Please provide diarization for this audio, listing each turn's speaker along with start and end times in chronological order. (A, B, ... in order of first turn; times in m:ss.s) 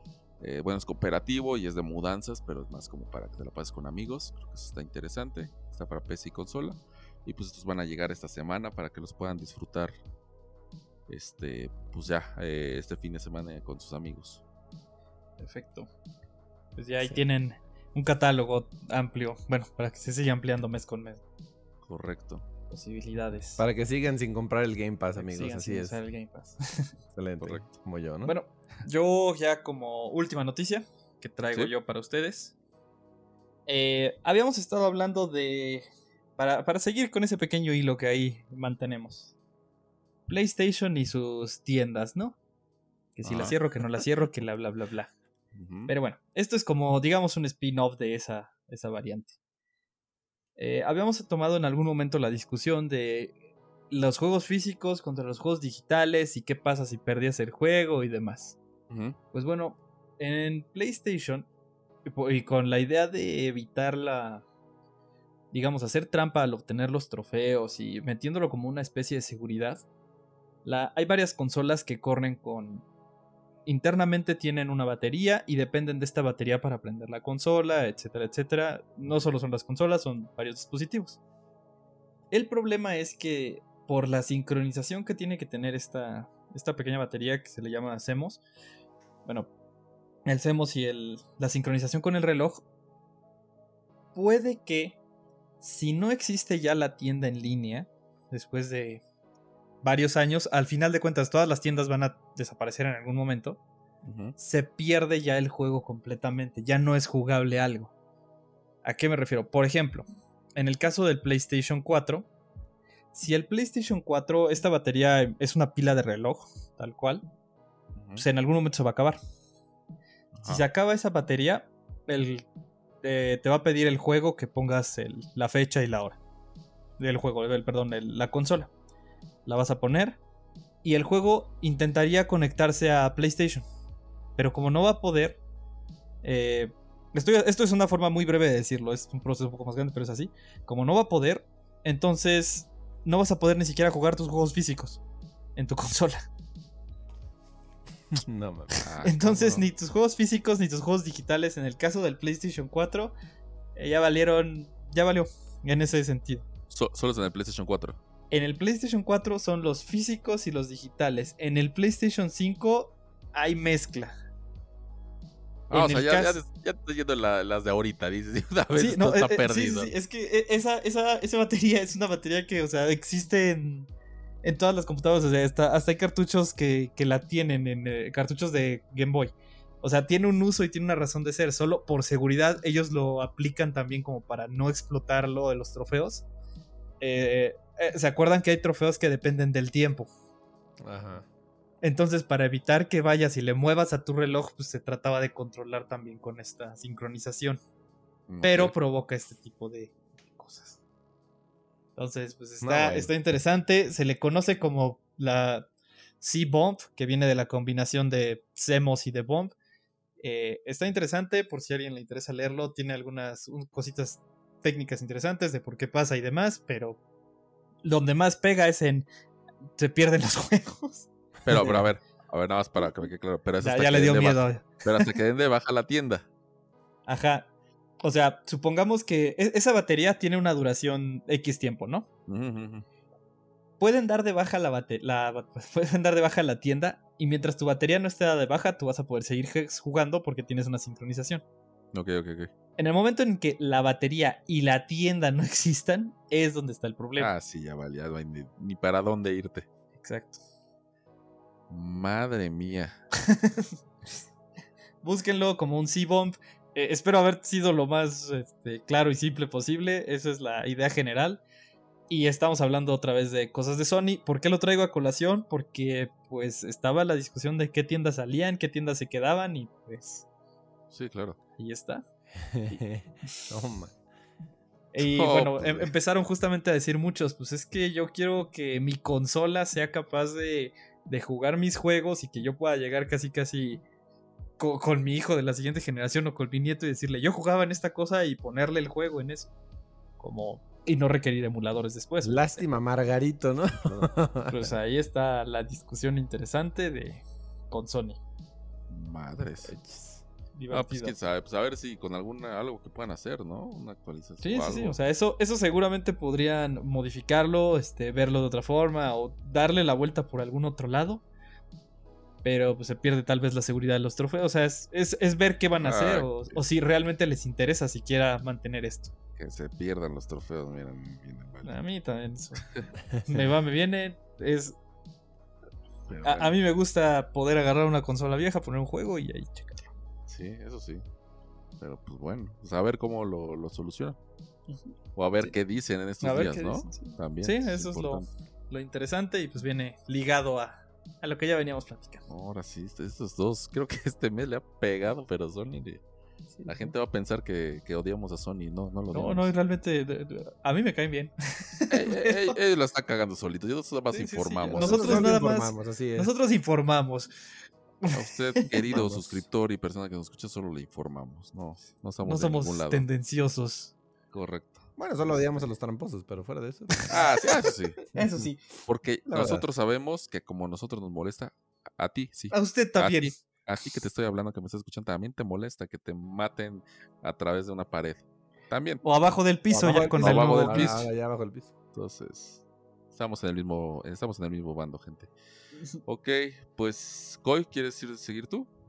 0:00.4-0:09.9 A
0:11.1-0:14.4 A
0:15.4-0:15.9 B
0:16.8-0:21.2 B
0:17.0-0:17.2 C
0:21.8-0:22.4 A
0:22.7-0:23.6 B
0:23.6-0:26.0 C
0:25.2-0:26.9 B
0:27.2-0:28.3 C
0:27.4-0:27.7 A
0:28.2-0:32.5 B
0:31.4-0:31.7 A
0:33.7-0:35.8 B
0:36.4-0:39.3 B
0:40.3-0:42.4 B
0:43.2-0:45.1 B
0:43.2-0:43.6 A
0:45.5-0:45.9 A
0:45.9-0:49.3 B
0:50.6-0:53.4 B
0:53.9-0:58.6 B
0:58.9-0:59.2 A
0:59.3-1:01.5 B
1:02.0-1:04.4 B
1:05.5-1:09.8 B
1:10.6-1:12.8 B
1:13.6-1:21.2 B
1:22.3-1:28.4 B
1:30.3-1:32.6 B
1:34.1-1:35.0 B
1:35.6-1:39.0 B
1:39.8-1:43.6 B
1:44.0-1:44.3 A
1:44.4-1:47.9 B
1:48.8-1:52.3 B
1:53.1-1:57.2 B
1:57.9-1:58.2 A
1:58.2-1:59.2 B
2:00.3-2:00.6 A
2:00.4-2:02.4 B
2:03.0-2:06.2 B
2:07.0-2:08.7 B
2:09.4-2:10.2 B
2:10.8-2:13.6 B
2:14.4-2:15.4 B
2:16.2-2:25.0 B
2:25.6-2:26.2 B
2:28.1-2:28.9 C
2:28.8-2:29.6 A
2:29.0-2:33.1 B
2:33.8-2:36.4 B
2:36.7-2:38.0 A
2:38.3-2:44.1 B
2:45.7-2:46.4 B
2:45.7-2:49.9 A
2:48.8-2:53.9 B
2:54.4-3:06.2 B
3:07.0-3:10.1 B
3:10.8-3:11.3 C
3:11.8-3:17.6 B
3:18.3-3:18.7 A
3:18.4-3:20.8 B
3:22.0-3:25.7 B
3:22.6-3:23.1 C
3:26.2-3:29.5 B
3:30.2-3:37.0 B
3:37.8-3:39.1 B
3:39.8-3:41.1 B
3:41.4-3:46.3 A
3:43.6-3:45.2 B
3:47.1-3:47.5 B
3:48.0-3:52.1 B
3:52.3-3:52.8 A
3:53.8-4:01.4 B
4:01.9-4:02.5 A
4:02.8-4:07.3 B
4:07.2-4:09.7 A
4:10.0-4:10.4 B
4:11.7-4:13.0 A
4:13.3-4:13.7 B
4:15.0-4:21.4 B
4:22.1-4:30.2 B
4:30.9-4:31.4 A
4:31.6-4:32.0 B
4:32.4-4:33.9 C
4:32.7-4:33.4 B
4:34.9-4:43.8 B
4:35.0-4:35.9 A
4:44.6-4:49.5 B
4:50.2-4:52.6 B
4:52.2-4:54.7 C
4:53.8-4:54.1 A
4:54.5-4:58.2 B
4:58.9-4:59.7 A
4:59.6-5:00.2 C
5:00.6-5:01.2 B
5:00.7-5:05.0 A
5:04.4-5:11.2 B
5:12.4-5:19.1 B
5:15.8-5:16.6 A
5:19.4-5:21.7 A
5:21.6-5:24.8 B
5:26.1-5:26.6 A
5:26.2-5:29.9 B
5:30.3-5:31.0 A
5:31.8-5:34.2 A
5:34.7-5:35.5 B
5:35.2-5:38.3 A
5:36.2-5:42.2 B
5:42.3-5:46.0 A
5:46.6-5:46.9 B
5:46.6-5:49.5 A
5:49.1-5:52.6 B
5:51.9-5:55.4 A
5:54.2-5:56.3 C
5:54.3-5:57.3 B
5:58.0-5:58.8 B
5:58.1-6:03.0 A
5:58.9-5:59.2 C
6:02.2-6:03.9 B
6:04.3-6:05.4 A
6:05.0-6:07.1 C
6:07.1-6:08.0 A
6:07.1-6:08.6 B
6:08.1-6:08.4 C
6:08.9-6:19.0 A
6:09.3-6:09.6 C
6:12.5-6:13.4 B
6:19.0-6:21.0 B
6:19.7-6:21.7 C
6:19.8-6:21.0 A
6:21.9-6:25.3 A
6:26.0-6:28.7 A